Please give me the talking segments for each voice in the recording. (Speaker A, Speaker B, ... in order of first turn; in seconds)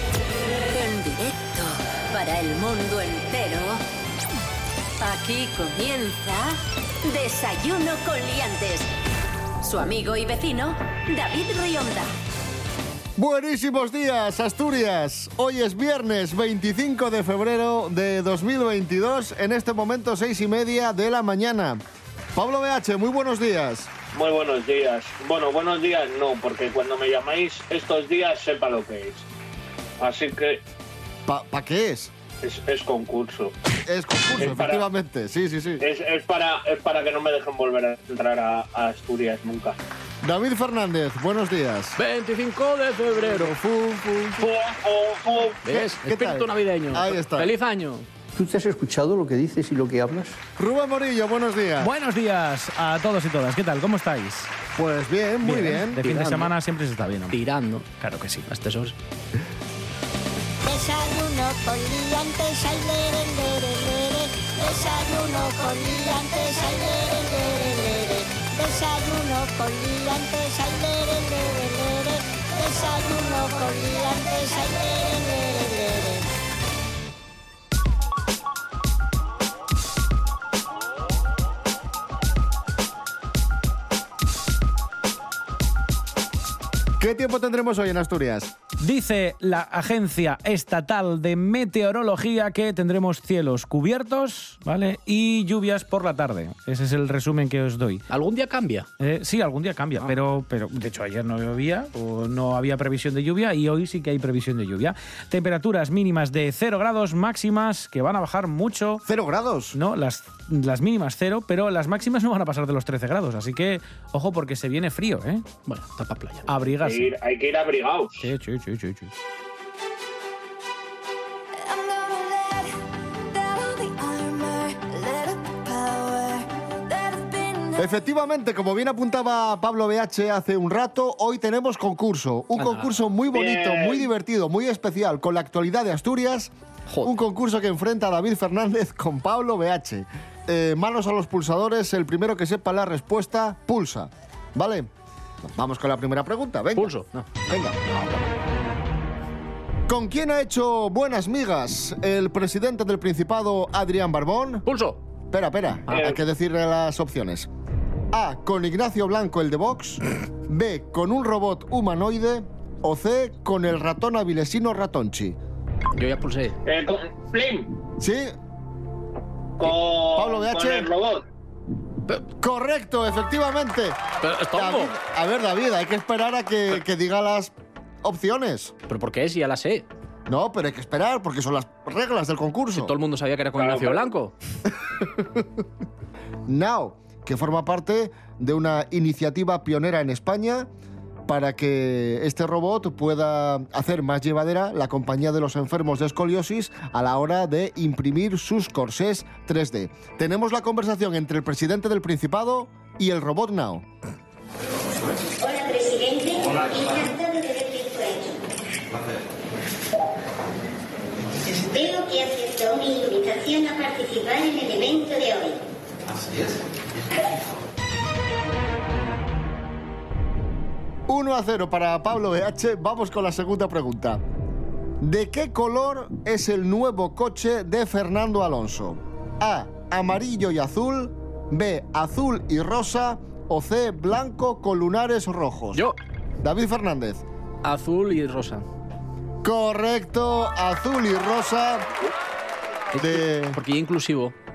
Speaker A: 0.7-3.8, 5.0-8.9, 9.6-12.1
Speaker B: 13.2-21.8, 22.3-23.9, 31.3-32.1, 33.8-35.8, 40.2-42.0, 43.2-44.4, 45.7-47.5, 50.6-51.9, 54.7-56.1, 87.0-88.5, 109.0-109.8, 127.8-136.5, 137.0-144.9, 145.4-146.9, 147.5-147.8, 149.9-154.6, 155.3-157.5, 158.1-165.4, 168.0-168.3, 169.6-170.9, 172.4-174.0, 174.5-178.7, 180.3-182.9, 185.1-185.4, 186.5-190.7, 191.3-203.8, 221.1-224.2, 225.0-235.8, 236.4-237.2, 239.4-241.9, 243.0-243.6
Speaker C: 24.1-29.2, 30.0-30.6, 32.4-33.5, 34.4-34.8, 35.8-39.8, 44.4-45.6, 116.8-118.2, 133.3-134.0, 166.6-167.7, 169.6-171.2, 183.6-184.1
Speaker D: 42.0-43.5, 45.6-48.0, 56.0-56.5, 57.3-58.9, 98.1-98.9, 115.7-116.5, 132.6-132.9, 146.8-148.3, 154.7-155.0, 165.9-166.6, 174.2-174.9, 178.9-179.8, 182.7-184.3, 237.6-238.6, 242.9-244.3
Speaker E: 48.3-50.4
Speaker F: 51.8-54.5, 55.4-57.4, 58.0-58.5, 88.8-98.0, 99.0-109.0, 109.7-115.4, 116.5-117.1, 118.2-119.1
Speaker G: 60.6-76.2
Speaker H: 121.5-122.8, 123.3-128.0
Speaker I: 205.4-208.4, 211.5-215.6